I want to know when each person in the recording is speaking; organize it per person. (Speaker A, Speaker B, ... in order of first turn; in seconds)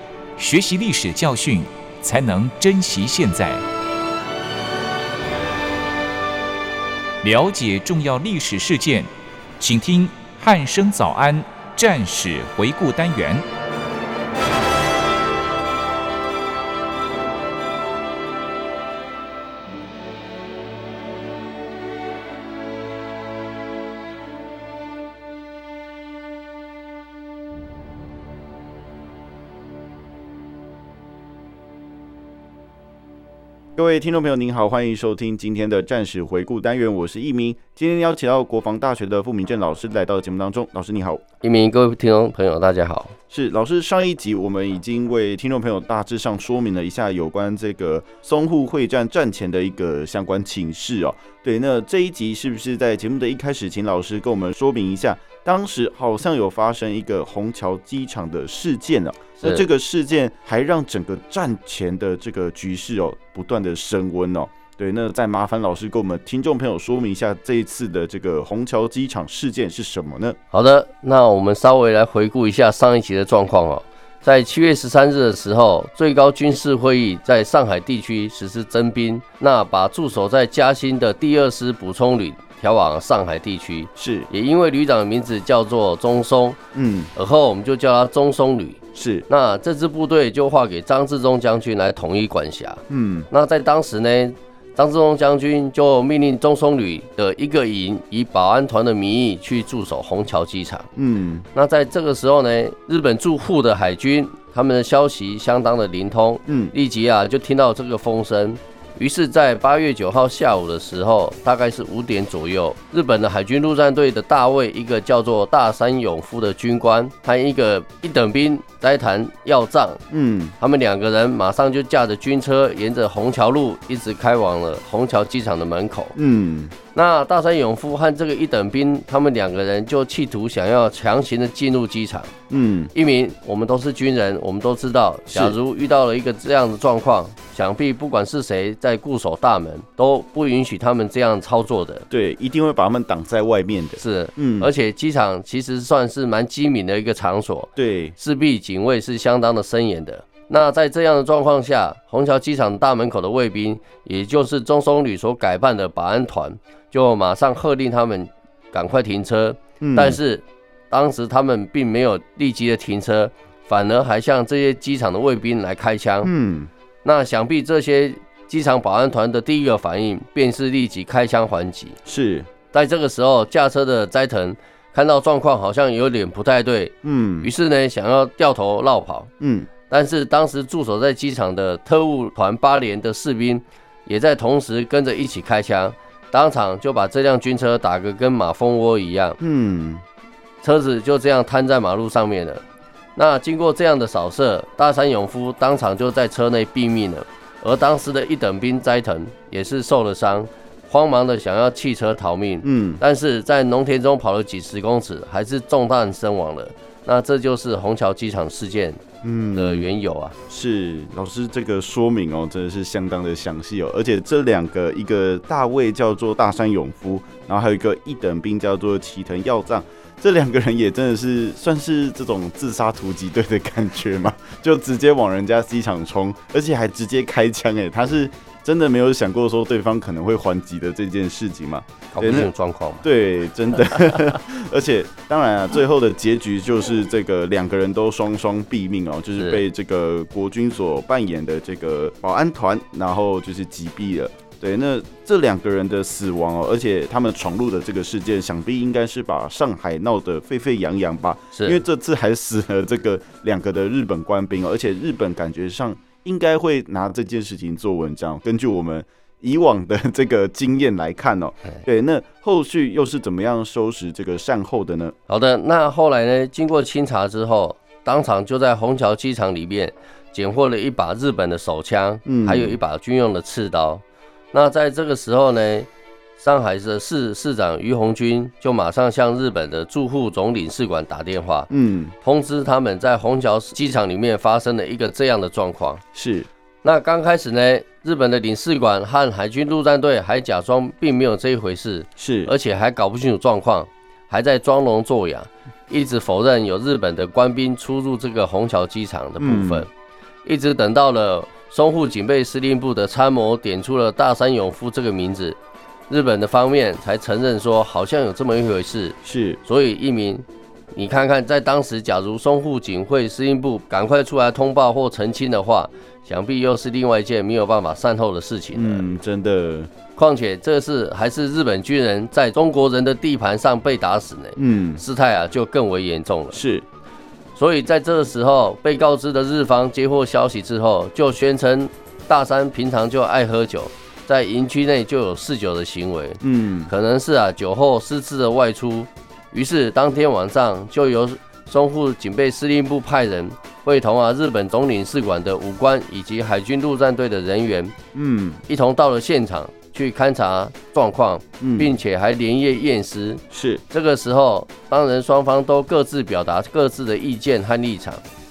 Speaker A: 0.4-3.6, 7.2-13.4
Speaker B: 33.8-41.2, 43.3-70.4, 84.0-84.3, 86.7-87.1, 88.9-89.3, 92.9-93.3, 101.0-101.5, 106.5-106.7, 120.1-120.5, 126.2-126.7, 132.5-132.9, 135.3-135.6, 142.1-144.7, 147.8-148.2, 159.8-160.2, 166.2-166.7, 172.1-172.5, 177.0-177.5, 179.4-179.7, 189.4-190.0, 202.6-203.0, 209.2-209.9, 210.5-232.5, 233.0-265.1, 272.2-272.8, 281.7-282.1, 286.1-286.5, 292.2-292.5, 299.4-299.9, 309.2-309.6, 318.7-319.9, 324.6-325.0, 326.5-326.9, 336.4-336.9, 348.1-348.6, 351.6-351.9, 353.5-353.8
Speaker C: 41.4-43.1, 70.5-86.6, 87.1-100.9, 101.5-120.0, 120.6-126.1, 126.9-132.3, 132.9-142.1, 144.0-166.3, 167.0-172.0, 172.7-179.3, 179.9-189.4, 190.6-192.6, 193.2-209.0, 209.5-210.3, 232.1-233.1, 239.4-239.6, 251.5-251.8, 265.3-281.7, 282.2-286.0, 286.8-299.9, 300.4-305.6, 306.1-319.0, 320.1-326.6, 327.6-347.9, 348.7-358.2